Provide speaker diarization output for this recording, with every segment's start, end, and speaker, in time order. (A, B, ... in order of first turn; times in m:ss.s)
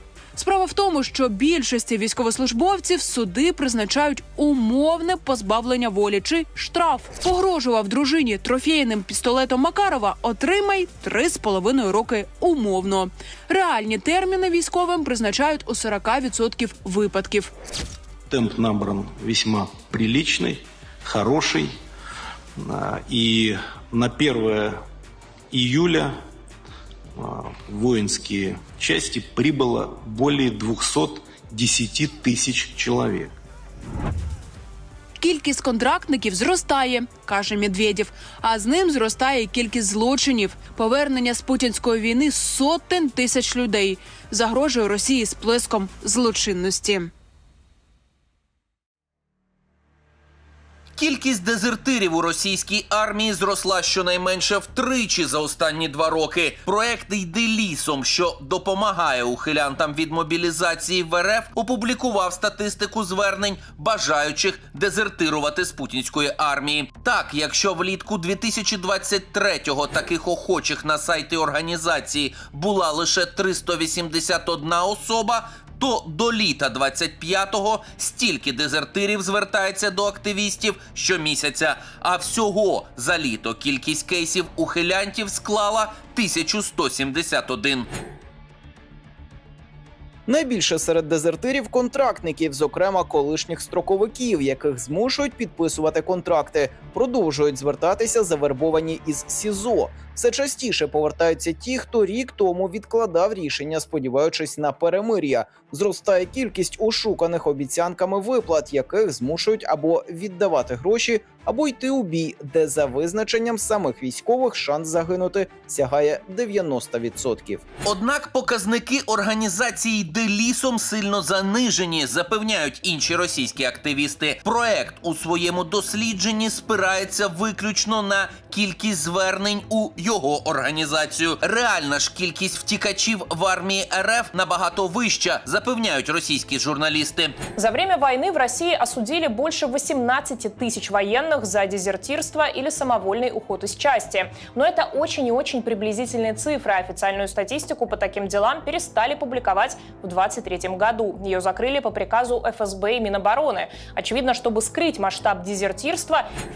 0:00.4-0:17.5 A
0:18.3-0:21.8 B
0:22.6-0:24.8 B
0:25.5-0:26.2 B
0:27.2-0:33.3 B
0:35.2-0:47.1 A
0:51.0-1:27.9 C
1:30.3-1:57.6 D
1:57.8-2:17.4 C
2:17.6-2:36.3 E